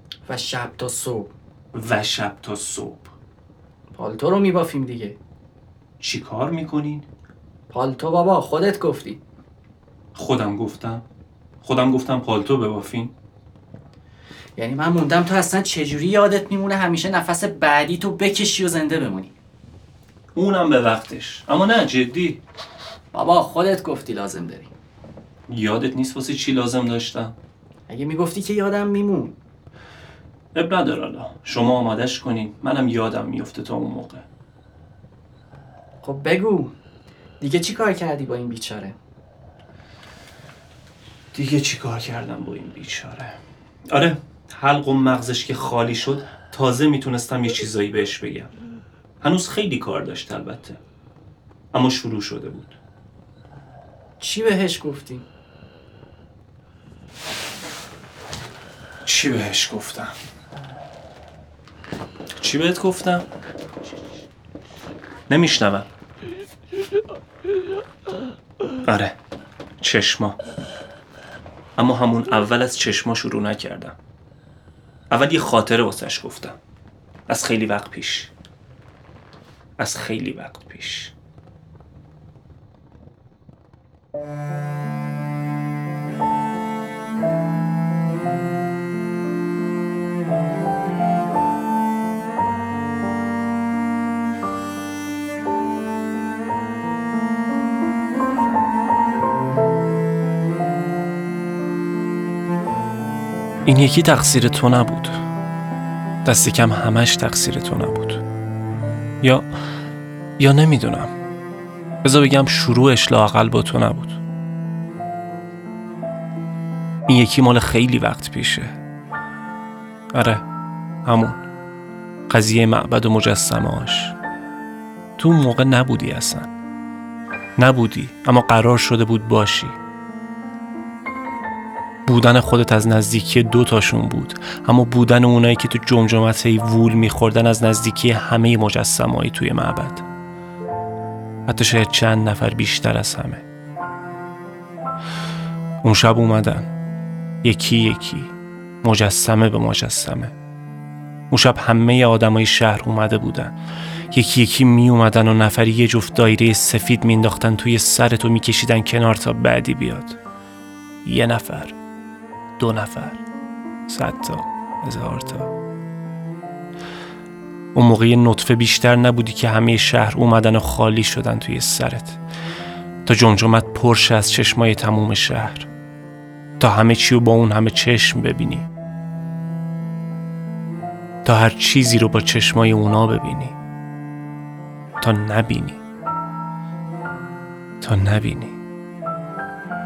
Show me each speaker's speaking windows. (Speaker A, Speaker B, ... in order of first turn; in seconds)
Speaker A: 0.2-1.3, 3.9-5.2, 7.7-9.2, 14.6-19.3, 23.1-24.7, 27.9-29.4, 36.0-36.7, 37.4-39.0, 54.2-55.2
Speaker B: 1.7-3.1, 6.0-7.1, 10.1-11.0, 11.6-13.1, 20.3-22.4, 25.5-27.3, 30.5-34.2, 41.3-43.4, 43.9-48.5, 49.2-50.8, 51.7-52.8, 59.0-60.1, 62.4-63.2, 65.3-65.9, 68.8-69.1, 69.8-70.4, 71.8-74.0, 75.1-76.6, 77.3-78.3, 79.8-81.1, 103.7-105.2, 106.2-108.2, 109.2-109.5, 110.4-111.1, 112.0-114.2, 117.1-118.7, 120.1-120.4, 121.0-121.4, 122.3-124.2, 125.2-126.5, 127.6-129.8, 132.1-140.0, 141.4-143.4, 145.8-146.7, 147.4-150.3, 151.3-153.6, 154.1-160.2, 161.0-161.8, 162.6-163.2, 163.9-165.5, 167.7-172.2, 173.1-175.7, 176.6-178.7, 181.2-183.6, 185.0-185.8, 187.8-188.6